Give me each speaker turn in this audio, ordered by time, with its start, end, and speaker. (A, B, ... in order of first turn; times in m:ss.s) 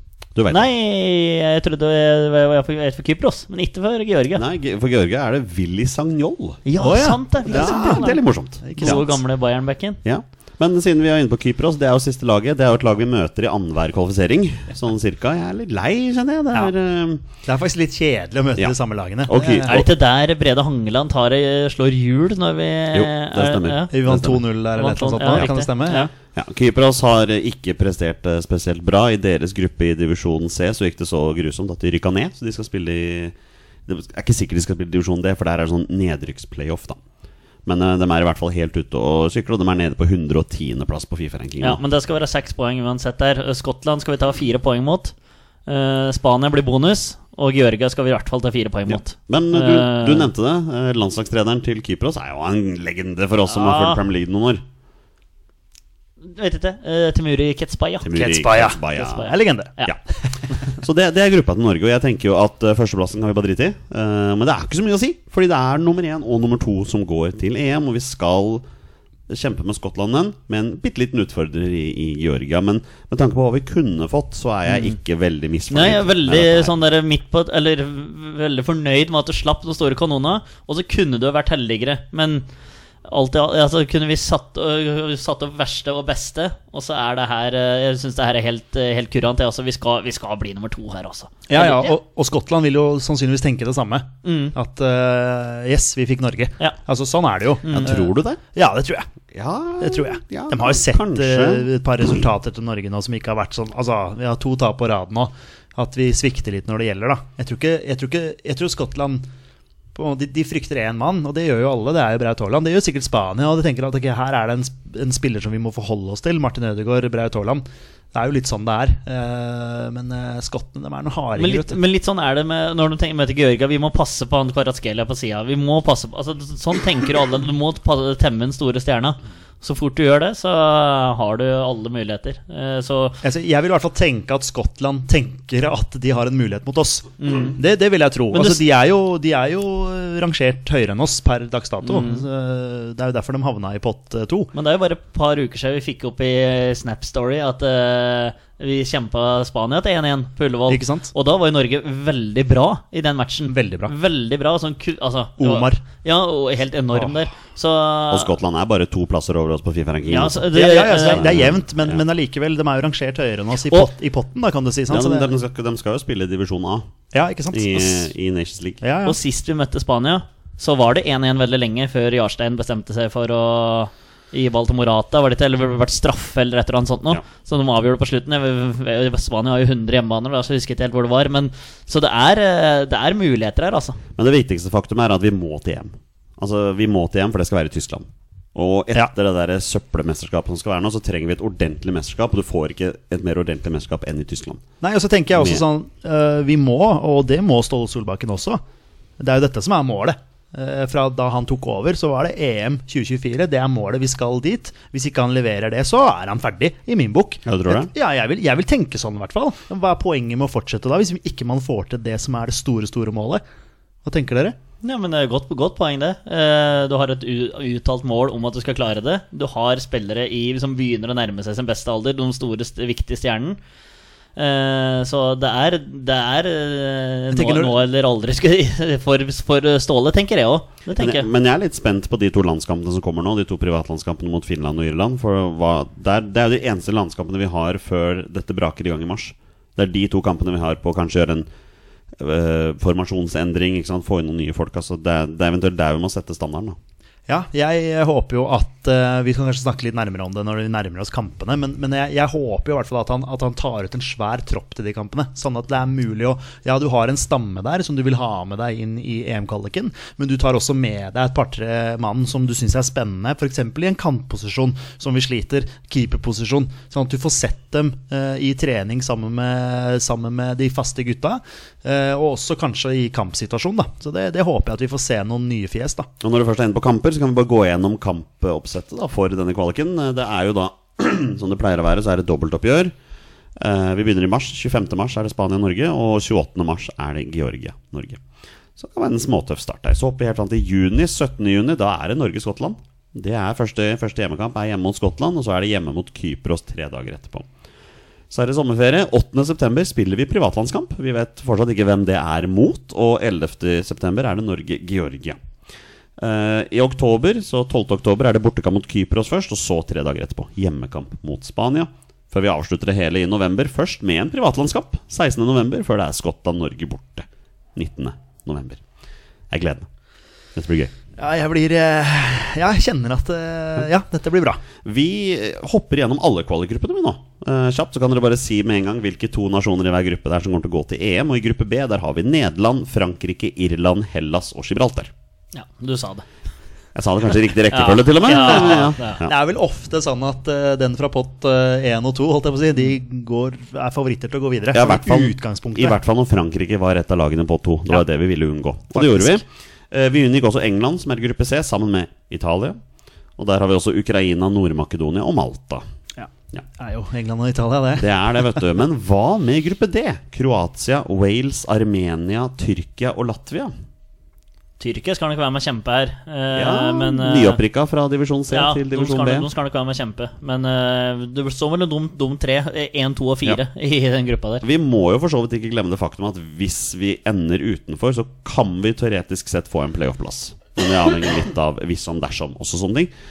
0:00.4-0:00.7 A
0:00.5-0:04.4 B
0:04.4-0:06.6 A
0:06.6-0:08.2 B
0:06.8-0:09.2 C
0:07.5-0:09.0 A
0:08.8-0:10.0 B
0:10.0-0:17.2 A
0:17.5-0:19.8 C
0:19.3-0:19.9 A
0:19.7-0:24.0 B
0:22.9-0:24.4 A
0:23.9-0:26.1 C
0:24.8-0:26.1 B
0:26.4-0:33.4 A
0:33.9-0:37.0 A
0:37.6-0:41.8 A
0:41.6-0:45.1 B
0:45.7-0:50.3 B
0:48.9-0:54.6 A
0:53.5-0:54.0 B
0:56.2-0:58.4 B
0:58.0-0:59.3 A
0:58.2-0:59.8 C
0:58.9-0:59.9 B
1:00.7-1:08.6 A
1:09.3-1:16.8 A
1:14.7-1:15.0 B
1:15.7-1:22.4 B
1:23.0-1:32.0 B
1:31.5-1:39.1 C
1:34.2-1:34.6 B
1:37.6-1:37.9 B
1:37.7-1:38.4 A
1:39.3-1:42.2 A
1:39.8-1:49.3 C
1:50.0-2:01.8 C
2:01.4-2:13.2 B
2:13.2-2:24.5 C
2:17.2-2:17.6 B
2:18.3-2:18.6 B
2:21.8-2:22.2 B
2:24.5-2:38.3 B
2:30.7-2:31.1 C
2:33.5-2:33.9 C
2:35.4-2:35.8 C
2:38.1-2:40.5 A
2:40.1-2:41.4 B
2:40.5-2:45.3 C
2:41.0-2:42.0 A
2:44.9-2:46.9 A
2:47.1-2:48.1 C
2:47.5-2:48.8 A
2:48.8-2:49.2 C
2:49.0-3:04.0 B
3:04.2-3:14.6 A
3:14.8-3:18.6 C
3:15.4-3:15.6 A
3:19.2-3:33.4 C
3:27.5-3:27.9 A
3:34.0-3:34.6 C
3:34.8-3:43.6 B
3:44.4-3:51.3 B
3:47.3-3:47.8 C
3:51.0-4:01.5 A
4:02.2-4:06.8 A
4:07.3-4:36.1 C
4:36.2-4:42.9 A
4:43.6-4:48.2 A
4:48.8-4:57.5 A
4:58.3-5:05.4 A
5:06.2-5:18.8 A
5:19.5-5:19.9 A
5:20.6-5:20.9 A
5:21.2-5:24.6 C
5:24.8-5:35.1 A
5:35.5-5:36.3 B
5:37.0-5:39.4 A
5:37.7-5:39.2 B
5:38.3-5:46.0 C
5:44.7-5:52.8 A
5:48.9-5:49.4 C
5:53.4-5:55.8 A
5:56.2-5:58.6 C
5:58.0-6:03.7 A
6:04.8-6:07.6 B
6:06.6-6:09.5 A
6:08.5-6:14.6 B
6:14.6-6:23.1 A